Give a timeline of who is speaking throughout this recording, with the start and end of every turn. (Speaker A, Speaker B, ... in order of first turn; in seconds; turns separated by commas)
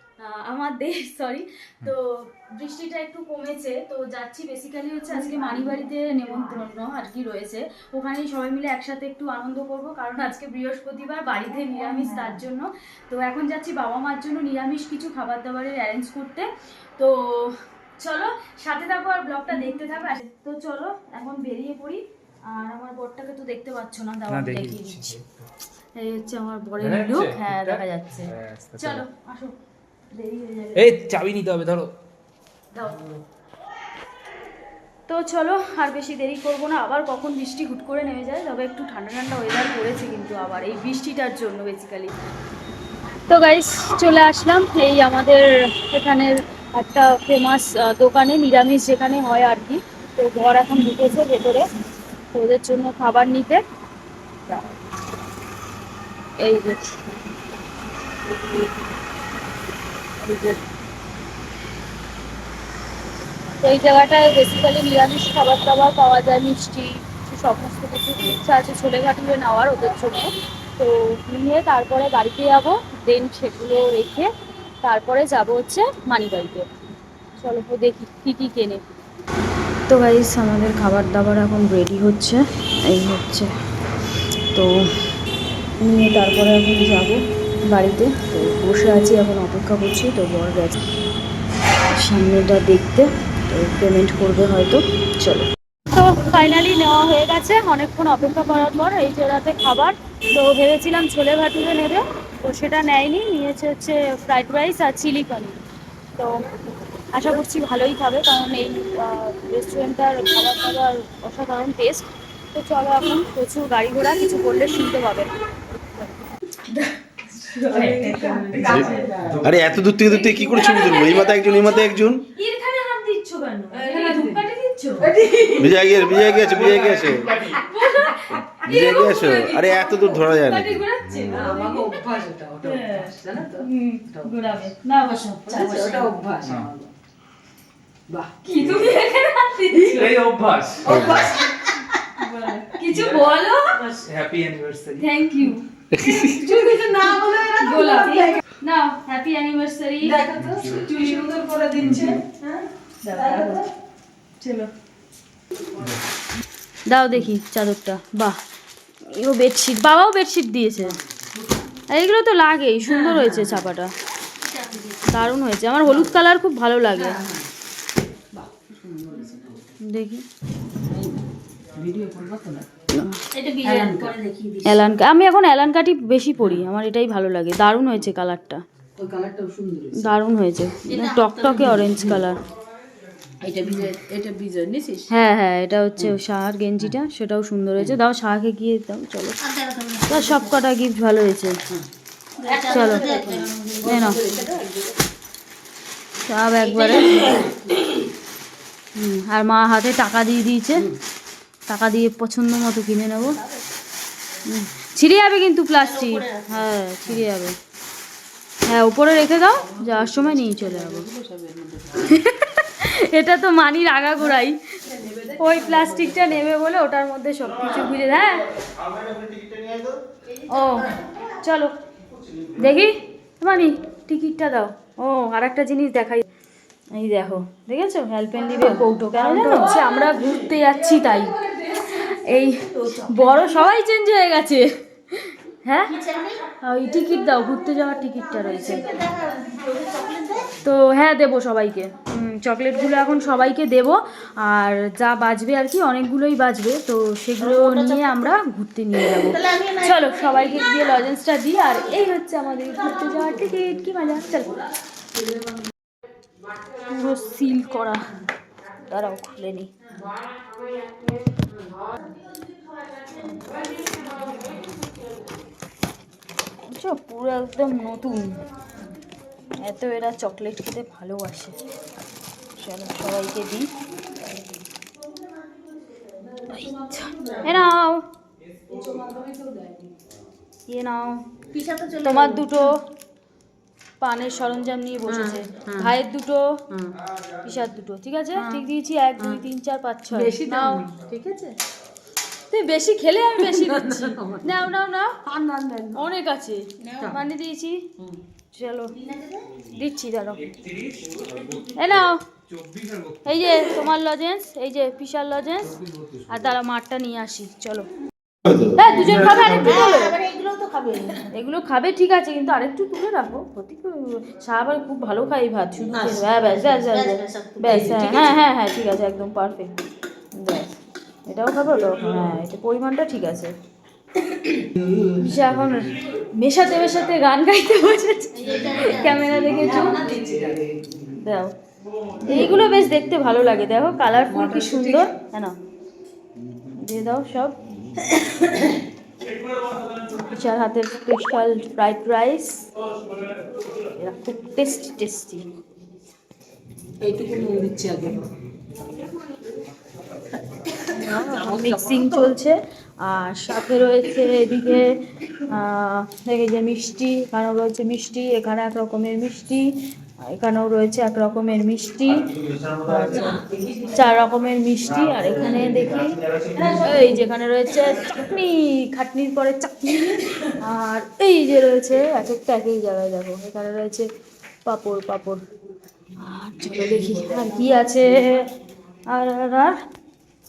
Speaker A: 0.2-25.2, Speaker B: 5.4-5.8, Speaker C: 24.3-25.5, Speaker A: 25.9-29.5, Speaker C: 26.8-29.0, Speaker A: 30.1-31.0, Speaker C: 30.8-31.9, Speaker A: 32.8-33.0, Speaker A: 35.1-42.1, Speaker A: 43.3-51.7, Speaker A: 52.3-53.6, Speaker A: 56.4-57.0, Speaker A: 60.2-60.5, Speaker A: 63.6-74.3, Speaker A: 74.8-76.7, Speaker A: 77.4-78.8, Speaker A: 79.9-83.5, Speaker A: 84.5-84.9, Speaker A: 85.8-90.8, Speaker A: 91.9-105.6, Speaker A: 106.2-106.5, Speaker A: 107.1-115.3, Speaker A: 116.7-119.1, Speaker B: 117.6-119.5, Speaker C: 118.5-120.0, Speaker D: 119.4-122.2, Speaker A: 120.0-125.1, Speaker B: 123.7-124.4, Speaker B: 125.0-125.8, Speaker D: 125.6-127.3, Speaker C: 126.4-127.6, Speaker A: 127.0-132.0, Speaker D: 128.6-131.3, Speaker B: 131.3-134.3, Speaker A: 132.6-136.1, Speaker B: 135.1-136.9, Speaker E: 135.6-136.0, Speaker B: 138.1-138.4, Speaker A: 138.4-140.1, Speaker C: 139.9-141.2, Speaker B: 140.8-141.5, Speaker A: 142.2-143.8, Speaker C: 142.9-143.3, Speaker B: 143.7-144.1, Speaker C: 144.1-145.1, Speaker A: 145.0-145.7, Speaker D: 145.9-146.5, Speaker B: 146.2-148.2, Speaker A: 147.0-150.2, Speaker E: 148.1-148.4, Speaker B: 150.0-153.7, Speaker C: 151.9-152.1, Speaker A: 153.0-153.7, Speaker A: 156.9-158.4, Speaker A: 159.1-161.0, Speaker A: 161.9-163.9, Speaker B: 162.9-163.7, Speaker E: 164.4-165.3, Speaker A: 165.1-167.2, Speaker B: 165.8-166.1, Speaker B: 166.9-167.5, Speaker B: 168.3-169.7, Speaker A: 169.8-170.2, Speaker B: 170.9-171.2, Speaker B: 171.8-172.7, Speaker A: 172.9-173.2, Speaker E: 173.3-174.7, Speaker B: 173.6-174.6, Speaker A: 174.6-178.6, Speaker B: 179.0-180.1, Speaker A: 180.0-182.4, Speaker E: 180.8-181.6, Speaker B: 181.4-182.2, Speaker B: 183.4-185.1, Speaker A: 185.1-189.4, Speaker E: 189.4-190.6, Speaker A: 190.1-191.6, Speaker E: 192.4-194.1, Speaker B: 192.4-195.0, Speaker A: 192.7-193.1, Speaker A: 193.8-194.2, Speaker A: 196.3-197.4, Speaker E: 196.6-197.5, Speaker B: 197.2-197.8, Speaker A: 199.0-200.9, Speaker A: 201.7-203.4, Speaker A: 204.5-207.6, Speaker E: 205.8-206.7, Speaker A: 208.7-211.1, Speaker B: 209.6-212.2, Speaker A: 212.0-214.6, Speaker B: 214.2-216.4, Speaker A: 215.4-218.5, Speaker D: 218.6-220.0, Speaker E: 220.3-221.3, Speaker A: 220.5-221.8, Speaker D: 222.1-222.7, Speaker A: 222.6-226.3, Speaker A: 226.9-236.0, Speaker B: 228.6-232.1, Speaker B: 232.7-233.3, Speaker E: 235.9-236.4, Speaker A: 236.6-238.9, Speaker E: 238.4-240.5, Speaker B: 238.6-239.0, Speaker A: 240.6-254.6, Speaker E: 247.4-248.4, Speaker E: 249.1-250.7, Speaker B: 252.9-255.7, Speaker A: 256.8-258.0, Speaker A: 258.9-259.7, Speaker B: 263.9-264.6, Speaker A: 266.7-268.4, Speaker A: 269.6-271.6, Speaker A: 272.6-273.7, Speaker B: 276.0-277.6, Speaker A: 276.5-278.0, Speaker B: 278.6-279.9, Speaker A: 280.7-281.2, Speaker E: 281.5-282.5, Speaker A: 282.0-282.8, Speaker A: 284.0-286.6, Speaker B: 285.1-286.0, Speaker B: 286.7-287.0, Speaker A: 287.4-290.9, Speaker B: 288.4-288.7, Speaker B: 290.1-291.6, Speaker A: 292.5-295.2, Speaker B: 293.4-294.5, Speaker B: 295.2-296.0, Speaker A: 295.9-297.8, Speaker E: 296.8-297.2, Speaker A: 298.5-299.0, Speaker E: 298.9-299.5, Speaker A: 299.7-300.4, Speaker C: 300.4-303.4, Speaker A: 301.8-302.2, Speaker A: 303.2-305.8, Speaker C: 305.7-306.5, Speaker A: 306.3-307.9, Speaker D: 308.4-308.8, Speaker A: 308.8-310.2, Speaker E: 308.9-311.3, Speaker C: 309.0-309.7, Speaker A: 311.3-319.7, Speaker E: 315.9-318.4, Speaker A: 320.4-320.7, Speaker A: 321.3-323.5, Speaker A: 325.2-330.1, Speaker E: 328.3-329.9, Speaker B: 329.6-331.0, Speaker A: 331.1-331.5, Speaker A: 332.2-335.6, Speaker B: 334.3-335.2, Speaker A: 336.7-338.7, Speaker A: 340.1-342.7, Speaker A: 343.9-345.5, Speaker B: 347.0-348.3, Speaker A: 350.9-354.9, Speaker B: 350.9-352.3, Speaker A: 355.5-362.3, Speaker D: 362.3-363.4, Speaker A: 362.9-366.2, Speaker E: 363.1-363.7, Speaker B: 363.5-363.8, Speaker D: 364.8-367.1, Speaker E: 365.3-365.7, Speaker B: 366.6-366.9, Speaker A: 366.8-374.1, Speaker A: 374.7-375.4, Speaker A: 376.2-378.5, Speaker B: 376.6-377.7, Speaker A: 379.1-379.8